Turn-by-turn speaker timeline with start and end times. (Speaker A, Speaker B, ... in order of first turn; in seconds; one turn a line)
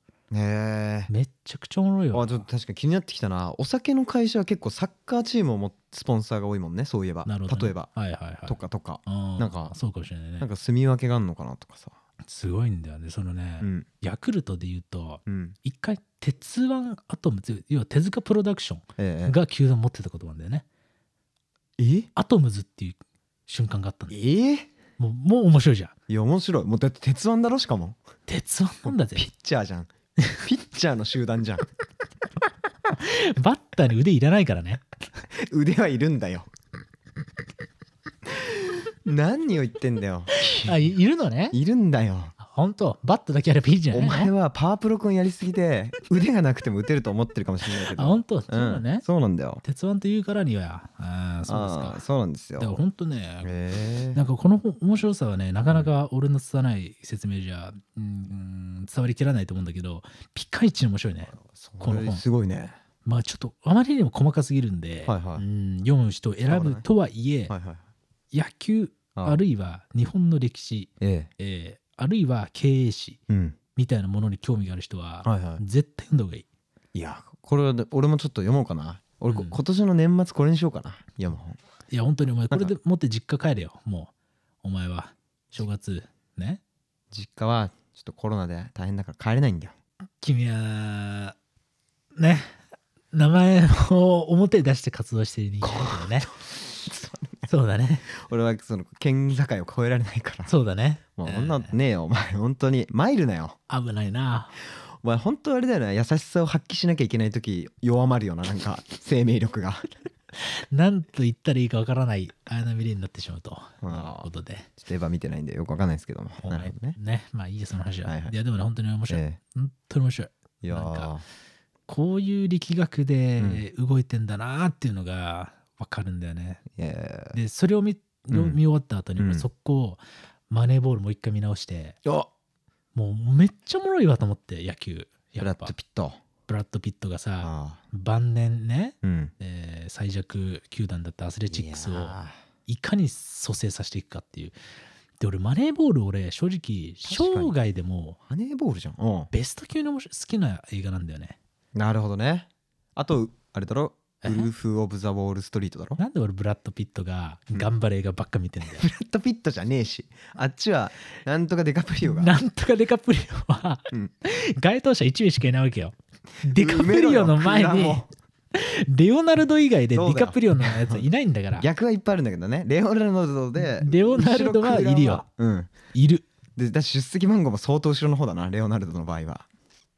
Speaker A: 0.3-1.1
Speaker B: 1.1-2.5
Speaker A: 2.1-7.9
Speaker B: 7.2-10.5
Speaker A: 8.5-9.8
Speaker A: 10.4-11.9
Speaker B: 12.2-20.6
Speaker A: 13.6-13.8
Speaker A: 15.2-15.6
Speaker A: 19.0-19.3
Speaker A: 21.8-22.1
Speaker B: 22.1-24.1
Speaker A: 24.1-24.7
Speaker B: 25.0-25.9
Speaker A: 26.1-28.0
Speaker B: 28.3-29.3
Speaker A: 28.9-29.9
Speaker B: 30.2-30.4
Speaker A: 30.4-31.6
Speaker B: 32.9-34.9
Speaker A: 35.3-36.5
Speaker A: 38.3-40.9
Speaker B: 40.3-41.6
Speaker A: 41.5-42.3
Speaker B: 42.4-44.3
Speaker A: 43.9-49.6
Speaker B: 47.9-49.0
Speaker B: 49.6-52.0
Speaker A: 51.5-52.7
Speaker B: 52.6-53.5
Speaker A: 53.4-54.2
Speaker B: 54.1-62.2
Speaker A: 61.4-62.8
Speaker B: 63.0-67.5
Speaker A: 65.0-65.5
Speaker A: 66.5-66.8
Speaker A: 67.5-67.8
Speaker B: 68.3-73.2
Speaker A: 69.1-69.4
Speaker A: 71.0-71.3
Speaker A: 73.3-73.6
Speaker B: 73.8-76.5
Speaker A: 75.2-75.6
Speaker A: 76.9-81.6
Speaker B: 79.3-79.5
Speaker B: 81.9-84.1
Speaker B: 84.6-86.6
Speaker A: 87.1-89.7
Speaker B: 90.2-91.3
Speaker B: 92.2-92.6
Speaker B: 93.1-96.3
Speaker A: 95.6-97.5
Speaker B: 97.5-98.1
Speaker A: 98.1-100.5
Speaker B: 100.5-101.7
Speaker A: 101.2-103.6
Speaker B: 103.7-104.5
Speaker A: 105.0-109.9
Speaker B: 110.3-114.7
Speaker A: 113.8-117.0
Speaker B: 116.4-121.1
Speaker A: 118.0-118.3
Speaker A: 119.1-119.4
Speaker A: 120.6-121.2
Speaker B: 121.9-126.7
Speaker A: 123.4-123.6
Speaker A: 126.7-127.4
Speaker B: 127.3-132.0
Speaker A: 128.3-128.6
Speaker A: 129.2-129.5
Speaker B: 132.9-135.7
Speaker A: 135.4-136.2
Speaker B: 136.5-144.5
Speaker A: 137.4-137.8
Speaker A: 139.0-139.3
Speaker A: 141.5-142.4
Speaker B: 145.2-148.2
Speaker A: 147.0-147.5
Speaker A: 148.3-149.3
Speaker B: 149.3-151.4
Speaker A: 151.7-156.0
Speaker B: 154.2-154.5
Speaker B: 156.0-158.9
Speaker A: 158.7-162.3
Speaker B: 162.0-171.7
Speaker A: 166.5-168.1
Speaker A: 169.9-171.0
Speaker A: 171.6-175.7
Speaker B: 173.6-175.2
Speaker B: 175.9-176.2
Speaker A: 176.6-179.5